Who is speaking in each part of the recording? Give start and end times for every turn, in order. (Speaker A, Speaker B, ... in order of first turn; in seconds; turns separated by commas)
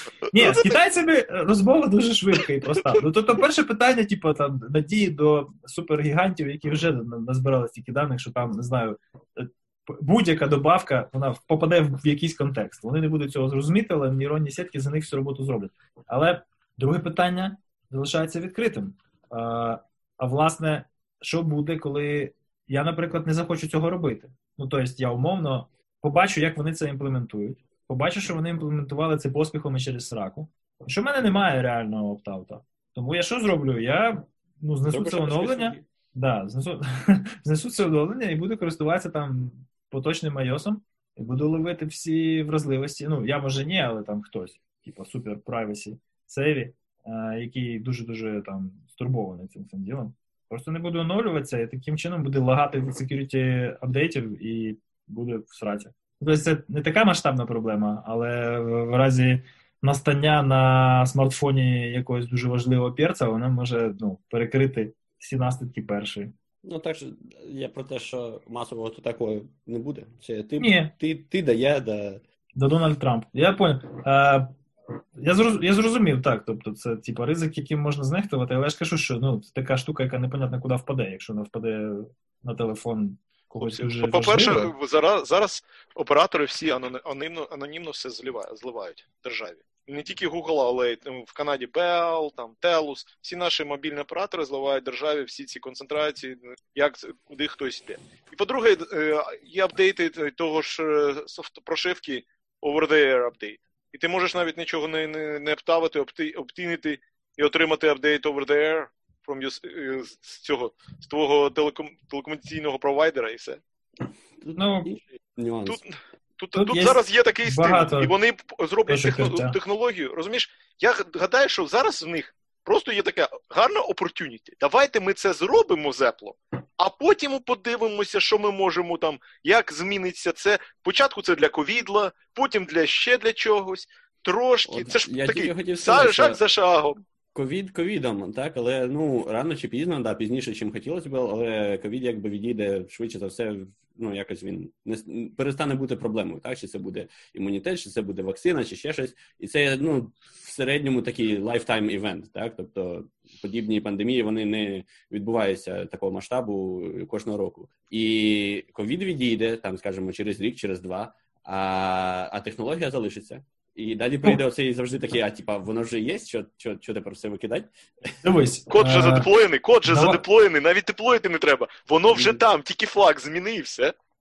Speaker A: 0.3-66.3, Speaker B: 0.3-0.7, Speaker C: 34.9-35.9, Speaker C: 66.6-72.2, Speaker A: 70.6-70.9, Speaker A: 72.6-74.5, Speaker A: 75.2-84.7, Speaker B: 83.6-113.6, Speaker C: 114.4-115.8, Speaker A: 114.6-114.9, Speaker B: 115.7-137.0, Speaker A: 116.5-118.1, Speaker A: 118.9-119.6, Speaker C: 134.7-136.4, Speaker C: 137.3-167.7, Speaker A: 168.2-169.3, Speaker B: 168.7-173.9, Speaker A: 169.8-170.2, Speaker C: 172.1-172.4